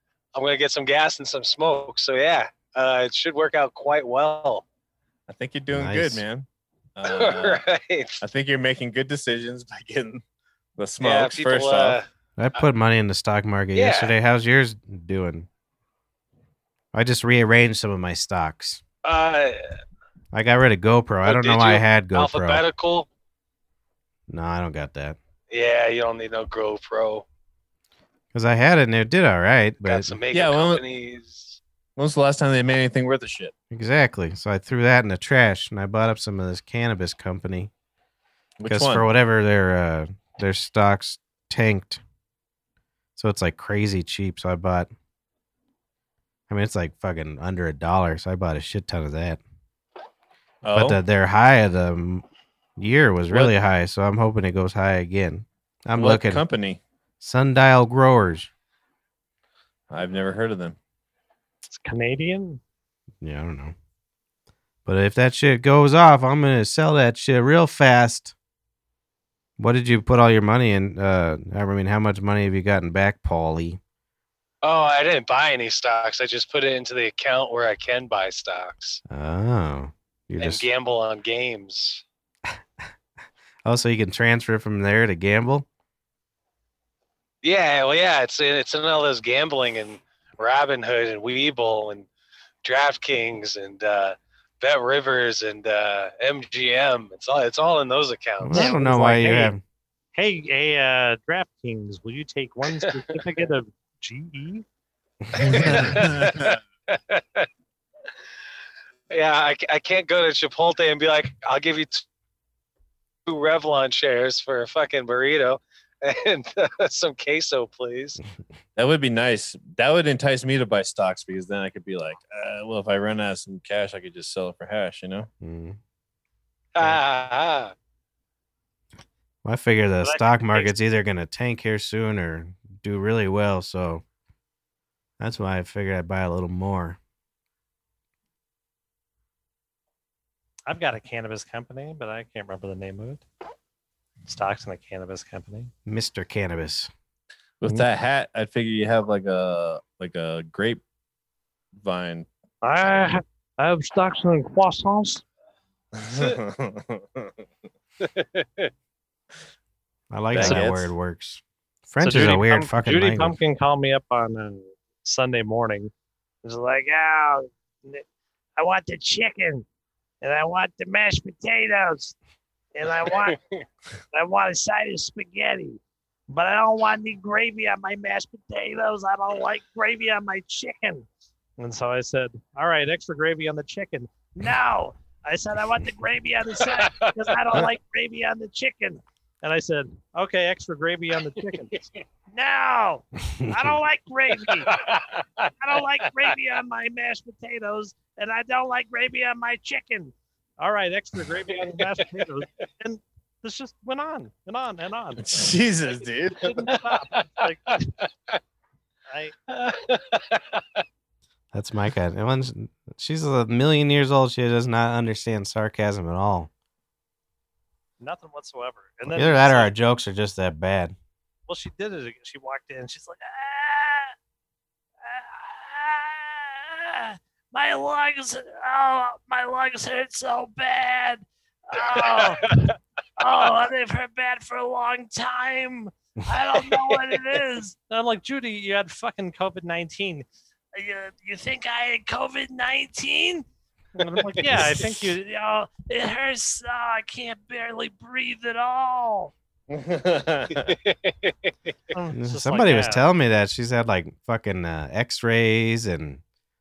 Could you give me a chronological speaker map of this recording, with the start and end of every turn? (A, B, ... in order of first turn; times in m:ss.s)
0:00.3-0:04.6 A
0:05.3-0:07.6 B
0:05.7-0:06.2 C
0:07.0-0:08.2 A
0:08.2-0:10.2 B
0:10.8-0:12.0 B
0:11.0-0:12.0 A
0:12.4-0:15.5 C
0:13.7-0:14.1 A
0:16.9-0:18.8 C
0:19.0-0:19.6 A
0:20.3-0:22.6 C
0:21.2-0:23.1 A
0:24.3-0:25.2 C
0:25.5-0:27.2 A
0:28.3-0:30.2 C
0:29.8-0:31.6 A
0:30.3-0:30.8 B
0:32.0-0:33.5 B
0:33.7-0:37.7 C
0:38.6-0:39.0 B
0:38.7-0:42.0 C
0:43.2-0:44.9 C
0:46.5-0:49.4 C
0:50.6-0:51.0 B
0:50.7-0:52.2 C
0:52.8-0:56.4 C
0:56.0-0:56.8 B
0:57.2-0:58.5 C
0:59.9-1:00.8 B
1:01.7-1:02.6 D
1:03.2-1:03.7 C
1:04.8-1:08.3 C
1:09.6-1:13.8 C
1:14.6-1:19.0 A
1:19.1-1:20.6 C
1:20.4-1:22.0 A
1:23.6-1:25.7 C
1:27.4-1:32.1 A
1:32.6-1:38.7 A
1:38.4-1:39.6 C
1:38.5-1:39.5 D
1:40.1-1:44.6 D
1:42.8-1:43.2 A
1:45.4-1:47.5 A
1:45.4-1:46.5 B
1:49.1-1:52.0 A
1:53.2-1:58.2 A
1:58.8-2:05.3 B
2:05.4-2:05.8 C
2:06.7-2:07.7 A
2:09.4-2:14.0 C
2:15.2-2:17.0 C
2:20.7-2:23.2 D
2:24.2-2:25.7 D
2:25.8-2:26.9 C
2:27.6-2:30.8 B
2:31.8-2:32.3 B
2:32.6-2:35.2 D
2:36.0-2:37.3 B
2:38.0-2:38.7 A
2:40.1-2:43.4 C
2:40.3-2:40.9 B
2:42.0-2:45.9 D
2:46.4-2:48.0 D
2:48.6-2:49.6 D
2:50.2-2:52.1 D
2:52.7-2:53.4 D
2:53.2-2:53.6 A
2:54.1-3:01.0 D
3:01.6-3:14.8 D
3:06.6-3:07.2 A
3:13.4-3:13.7 C
3:14.7-3:15.5 A
3:15.6-3:25.4 D
3:25.2-3:26.7 B
3:26.4-3:27.9 D
3:26.7-3:27.2 A
3:29.5-3:30.8 A
3:31.5-3:36.5 C
3:38.0-3:39.7 D
3:39.1-3:41.0 C
3:41.5-3:44.1 D
3:45.0-4:03.4 D
3:52.0-3:52.7 A
4:04.0-4:09.3 D
4:09.7-4:10.7 B
4:10.7-4:11.5 A
4:11.9-4:13.0 D
4:12.1-4:16.2 C